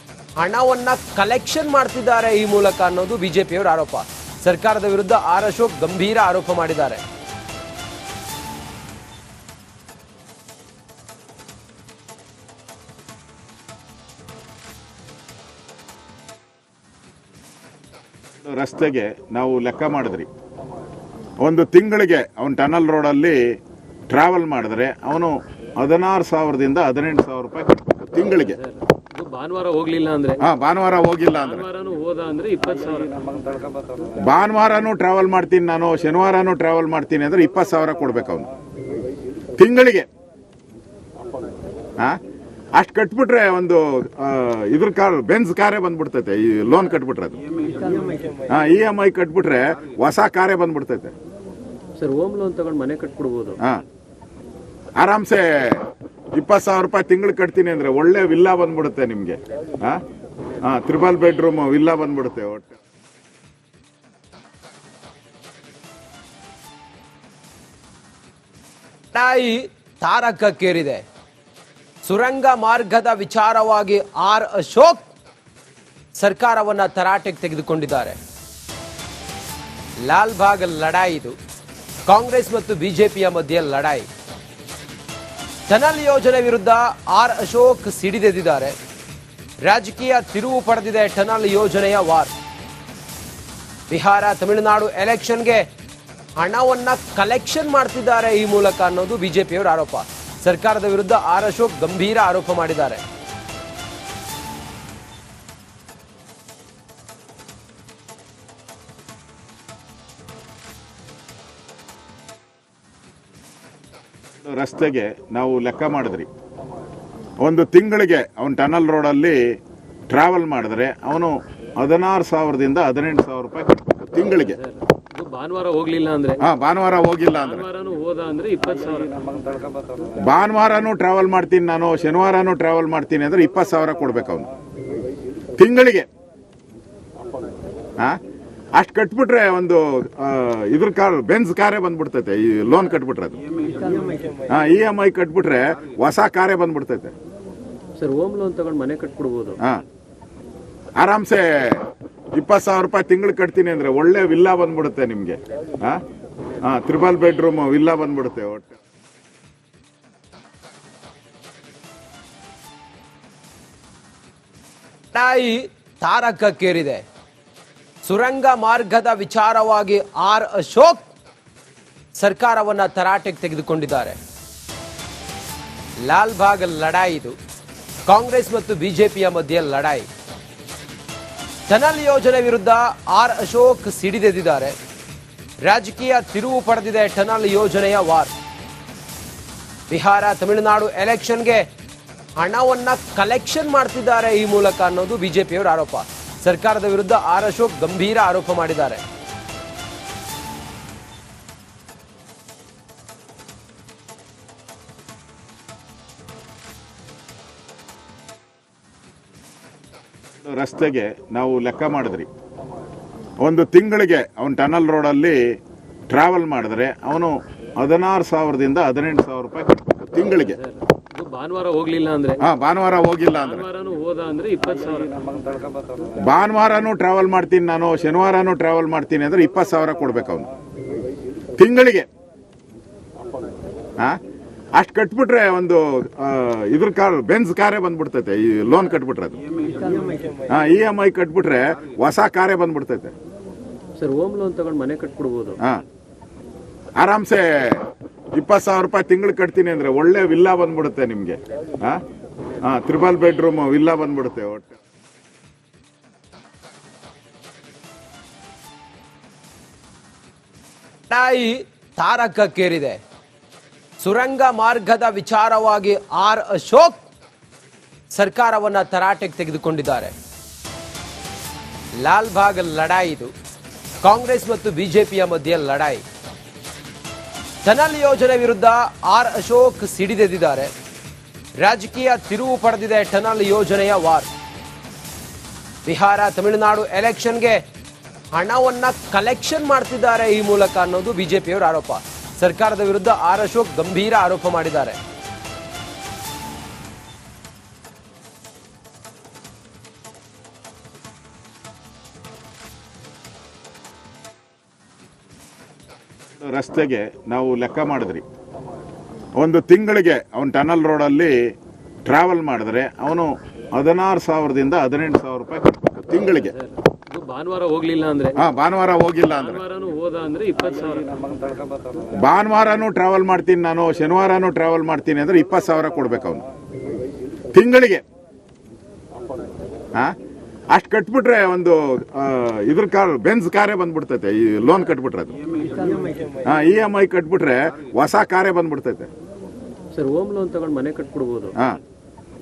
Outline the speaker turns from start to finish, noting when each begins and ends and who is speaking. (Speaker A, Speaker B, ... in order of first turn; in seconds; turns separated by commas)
Speaker A: 0.4-7.0, Speaker B: 18.4-20.3, Speaker B: 21.4-23.4, Speaker B: 24.1-28.6, Speaker C: 28.6-30.4, Speaker B: 30.4-31.7, Speaker C: 31.4-33.2, Speaker B: 34.2-38.5, Speaker B: 39.6-40.1, Speaker B: 42.8-47.4, Speaker B: 48.5-51.1, Speaker A: 52.1-53.4, Speaker B: 55.0-60.0, Speaker B: 60.6-62.8, Speaker A: 69.1-71.0, Speaker A: 72.0-75.1, Speaker A: 76.2-78.2, Speaker A: 80.0-81.4, Speaker A: 82.1-84.1, Speaker A: 85.7-88.8, Speaker A: 89.6-92.3, Speaker A: 93.9-95.7, Speaker A: 96.4-103.0, Speaker B: 114.4-116.3, Speaker B: 117.4-119.4, Speaker B: 120.1-124.6, Speaker C: 124.5-126.4, Speaker B: 126.4-127.7, Speaker C: 127.4-129.2, Speaker B: 130.2-134.5, Speaker B: 135.6-136.1, Speaker B: 138.8-143.4, Speaker B: 144.5-147.1, Speaker A: 148.2-149.3, Speaker B: 151.0-156.0, Speaker B: 156.6-158.8, Speaker A: 165.1-167.0, Speaker A: 168.0-171.1, Speaker A: 172.2-174.2, Speaker A: 176.0-177.4, Speaker A: 178.1-180.1, Speaker A: 181.7-184.8, Speaker A: 185.6-188.3, Speaker A: 189.9-191.7, Speaker A: 192.4-199.0, Speaker B: 210.4-212.3, Speaker B: 213.4-215.4, Speaker B: 216.1-220.6, Speaker C: 220.6-222.4, Speaker B: 222.4-223.7, Speaker C: 223.4-225.2, Speaker B: 226.2-230.5, Speaker B: 231.6-232.1, Speaker B: 234.8-239.4, Speaker B: 240.5-243.1, Speaker A: 244.5-245.1, Speaker B: 247.0-252.0, Speaker B: 252.6-254.8, Speaker A: 261.1-263.0, Speaker A: 264.0-267.0, Speaker A: 268.1-270.1, Speaker A: 271.9-273.3, Speaker A: 274.0-276.0, Speaker A: 277.6-280.7, Speaker A: 281.6-284.3, Speaker A: 285.9-287.6, Speaker A: 288.3-295.0, Speaker B: 306.4-308.2, Speaker B: 309.4-311.5, Speaker B: 312.1-316.6, Speaker C: 316.3-318.4, Speaker B: 318.4-319.6, Speaker C: 319.3-321.3, Speaker B: 322.1-326.4, Speaker B: 327.5-328.0, Speaker B: 330.7-335.4, Speaker B: 336.4-339.1, Speaker A: 340.1-340.5